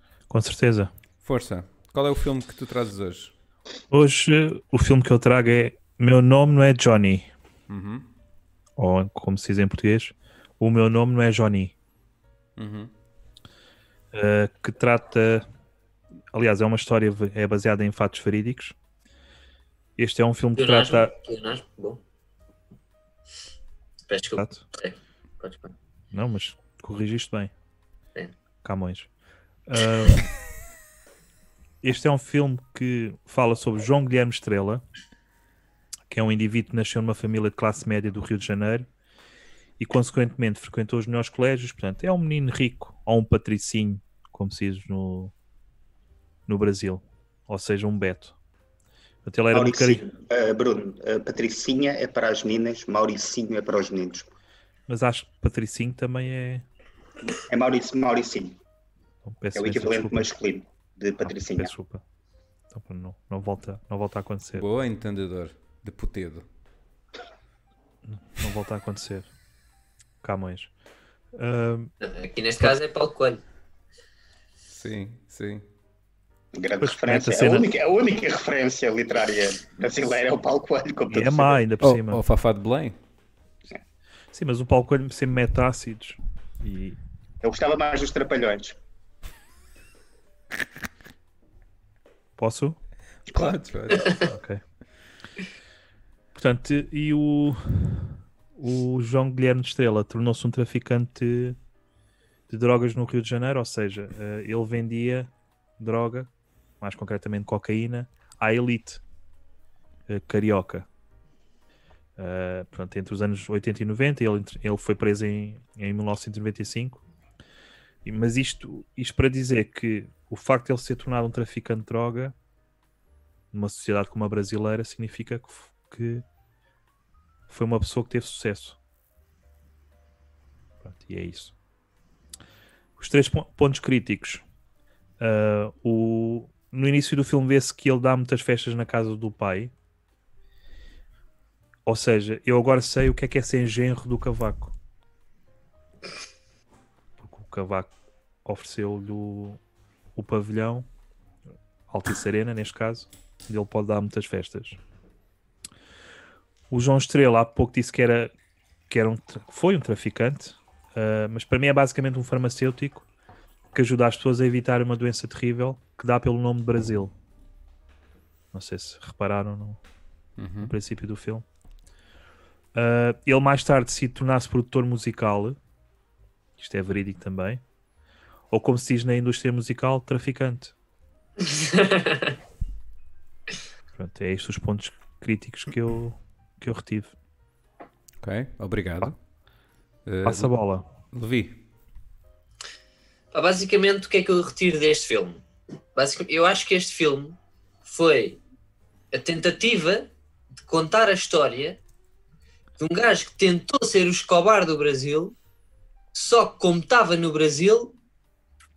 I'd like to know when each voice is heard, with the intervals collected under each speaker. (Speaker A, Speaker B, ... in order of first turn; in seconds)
Speaker A: 0.3-0.9, 3.9-7.3, 8.8-11.7, 14.1-15.4, 16.3-18.7, 20.0-21.1, 24.4-24.6, 26.1-27.5, 28.6-29.1, 29.7-30.3, 31.8-34.8, 36.1-38.9, 39.8-45.3, 46.5-48.3, 49.2-50.0, 54.9-56.6, 59.2-60.3, 61.2-62.0, 62.7-64.6, 68.0-69.3, 70.2-70.7, 71.3-71.9, 76.8-77.7, 81.1-82.2, 84.3-87.0, 92.4-92.8, 94.1-94.6, 96.3-101.6, 102.5-106.3, 106.8-109.0, 110.1-110.8, 112.2-117.0, 118.0-122.3, 123.5-126.2, 127.5-128.8, 130.8-131.5, 133.0-134.4, 135.2-139.7, 141.8-144.7, 147.2-147.9, 148.4-149.6, 150.1-150.8, 151.9-154.8, 156.7-158.3, 158.9-163.1, 163.7-167.1, 168.5-169.8, 170.6-171.4, 172.7-175.6, 176.6-177.6, 178.5-180.7, 183.9-187.1, 190.2-190.8
Speaker B: 1.2-3.3, 7.7-8.1, 12.6-12.9, 64.5-66.4, 74.7-75.6, 81.8-83.0, 93.3-94.3, 170.4-170.7, 188.2-189.2, 190.1-190.5, 191.1-191.6
Speaker C: 20.6-22.0, 24.1-25.7, 72.0-73.4, 181.4-182.3, 193.3-198.4, 199.1-200.1, 200.6-201.8, 202.8-205.3, 206.1-207.9
Speaker D: 49.5-54.3, 57.5-58.6, 59.5-61.7, 76.5-81.6, 87.4-88.8